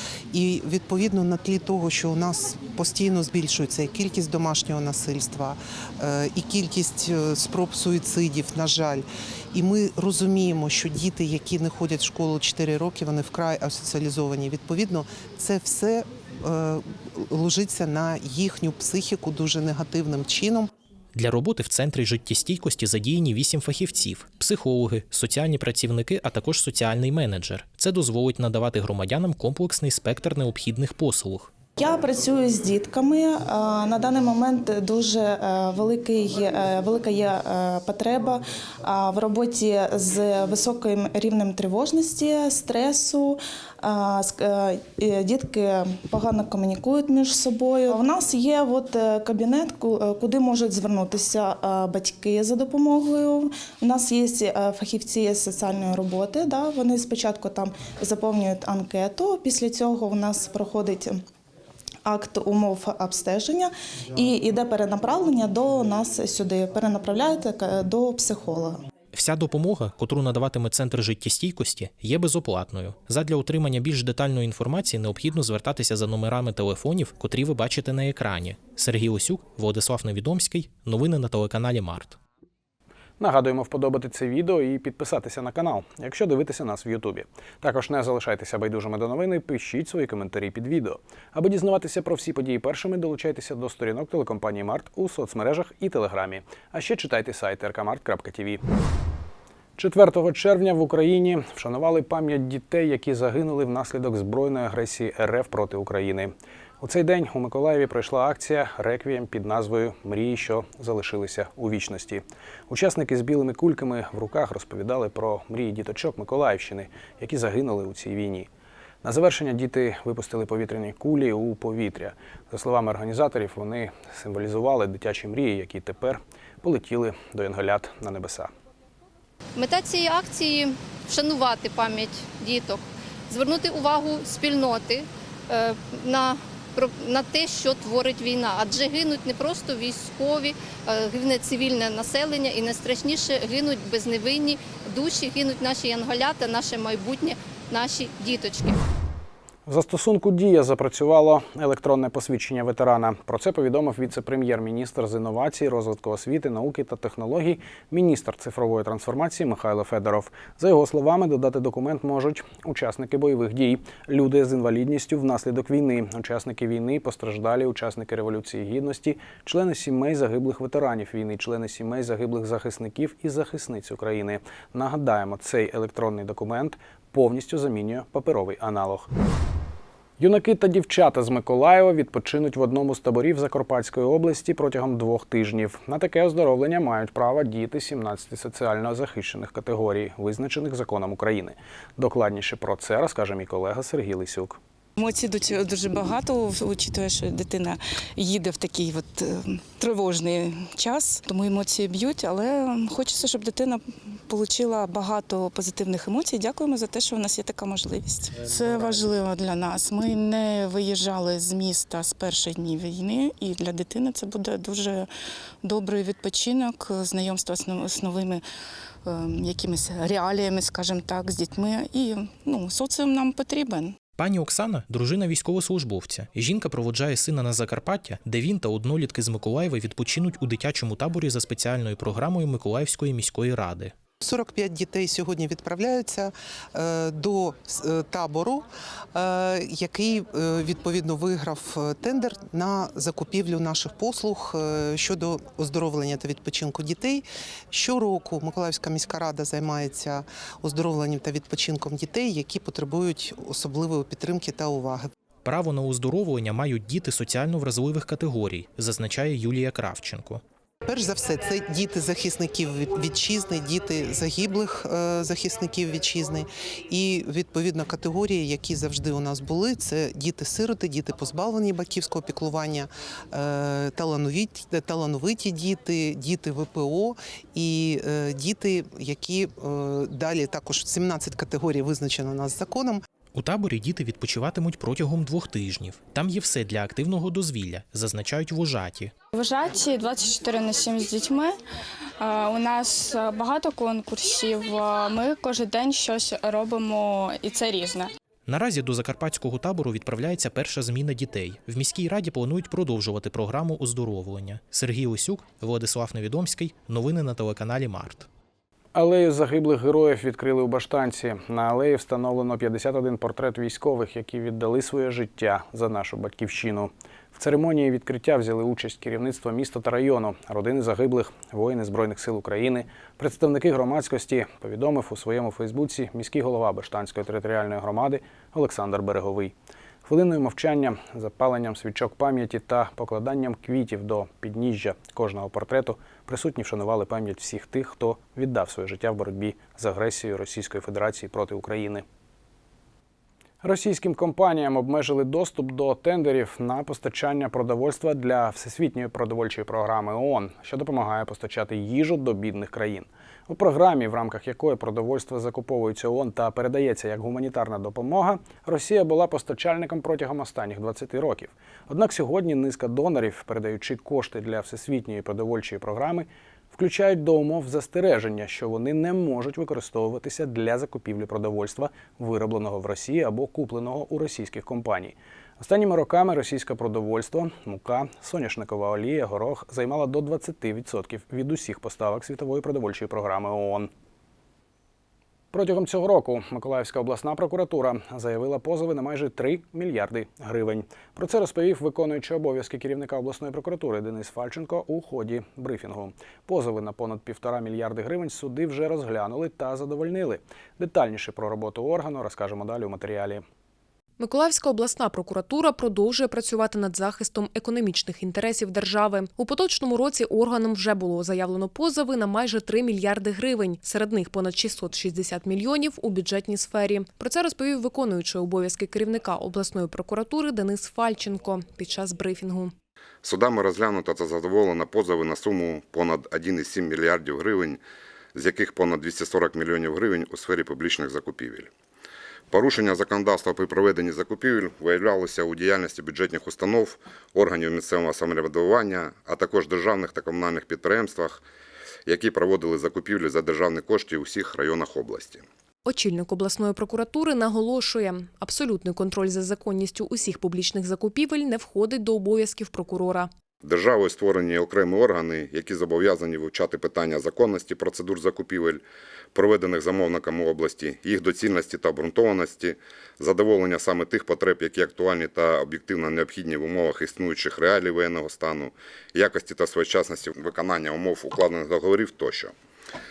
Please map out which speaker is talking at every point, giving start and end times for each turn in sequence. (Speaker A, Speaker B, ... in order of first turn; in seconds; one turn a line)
Speaker A: 0.3-20.7
Speaker B: 21.1-31.5
Speaker C: 31.8-61.2
Speaker C: 62.0-68.8
Speaker B: 69.1-82.2
Speaker D: 83.2-98.6
Speaker D: 99.8-118.5
Speaker D: 119.0-128.5
Speaker E: 129.6-148.8
Speaker D: 149.7-179.1
Speaker D: 180.2-194.6
Speaker F: 195.0-215.1
Speaker F: 215.6-218.4
Speaker F: 219.0-223.9
Speaker B: 224.2-233.9
Speaker A: 234.2-255.1
Speaker B: 255.4-260.4
Speaker A: 260.9-283.0
Speaker B: 283.3-289.1
Speaker G: 289.3-291.5
Speaker G: 292.2-298.1
Speaker B: 298.5-308.3
Speaker D: 308.9-329.5
Speaker D: 330.1-342.0
Speaker D: 343.6-383.9
Speaker D: 385.5-403.4
Speaker H: 404.2-422.7
Speaker I: 423.2-427.8
Speaker I: 428.3-431.7
Speaker I: 432.5-441.4
Speaker I: 442.1-445.4
Speaker H: 445.9-453.3
Speaker I: 453.6-458.8
Speaker I: 459.3-472.5